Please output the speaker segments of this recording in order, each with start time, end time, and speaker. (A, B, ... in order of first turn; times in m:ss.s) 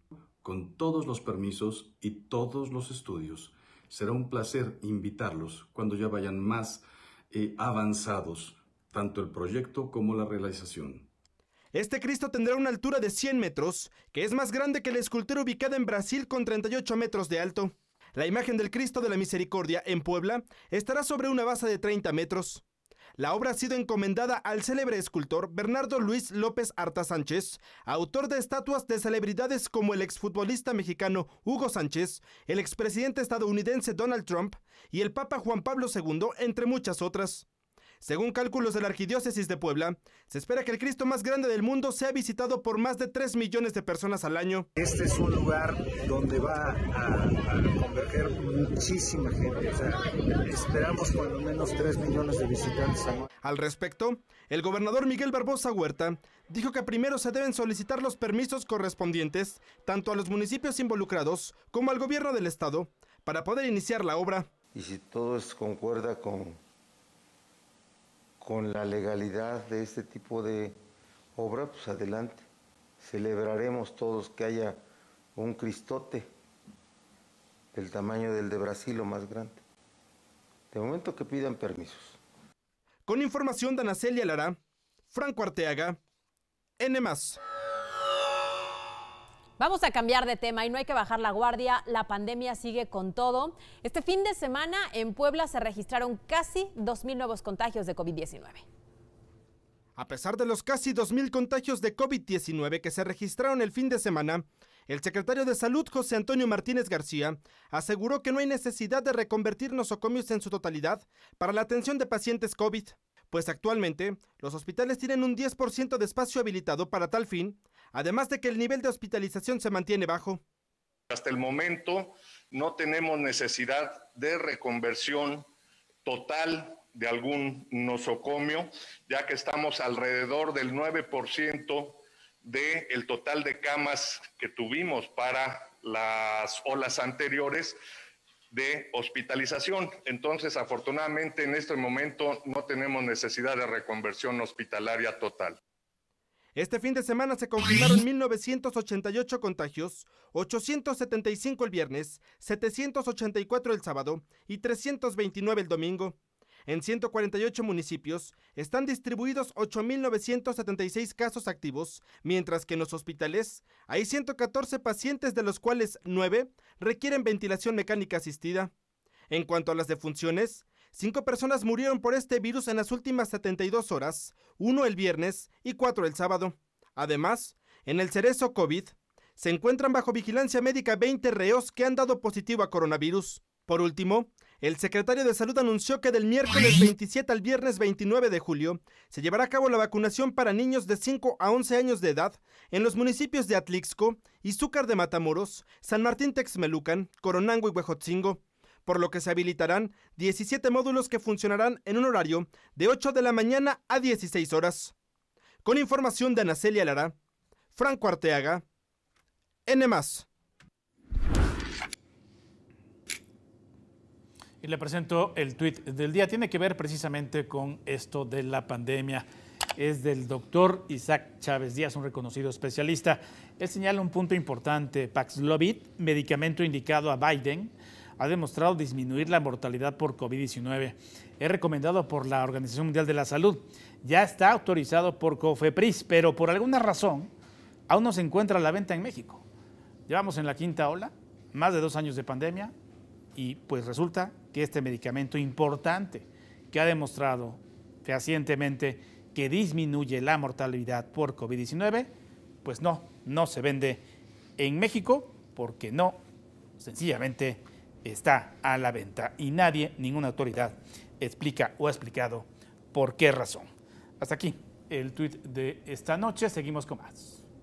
0:00.4-0:11.1 A
0:11.7-0:22.6 B
0:23.2-0:37.5 B
0:38.0-0:44.7 B
0:44.8-0:53.3 C
0:53.4-1:04.5 B
1:04.7-1:06.6 D
1:08.4-1:10.8 D
1:11.4-1:12.4 D
1:13.0-1:14.8 D
1:15.4-1:16.3 D
1:17.7-1:19.6 D
1:20.7-1:22.2 D
1:23.1-1:24.6 B
1:25.1-1:26.0 B
1:26.8-1:27.4 B
1:29.6-1:38.6 E
1:40.0-2:00.4 B
2:01.1-2:05.5 F
2:06.0-2:17.8 F
2:18.5-2:25.6 F
2:26.6-2:36.2 B
2:36.7-2:48.7 B
2:49.3-3:24.9 B
3:25.6-3:27.2 B
3:27.8-3:28.6 B
3:29.7-3:30.3 B
3:34.6-3:39.3 G
3:39.8-3:57.3 G
3:57.9-3:59.4 G
4:00.1-4:02.7 G
4:03.4-4:12.1 G
4:12.6-4:14.0 G
4:14.6-4:16.2 G
4:16.8-4:23.7 G
4:24.2-4:27.4 G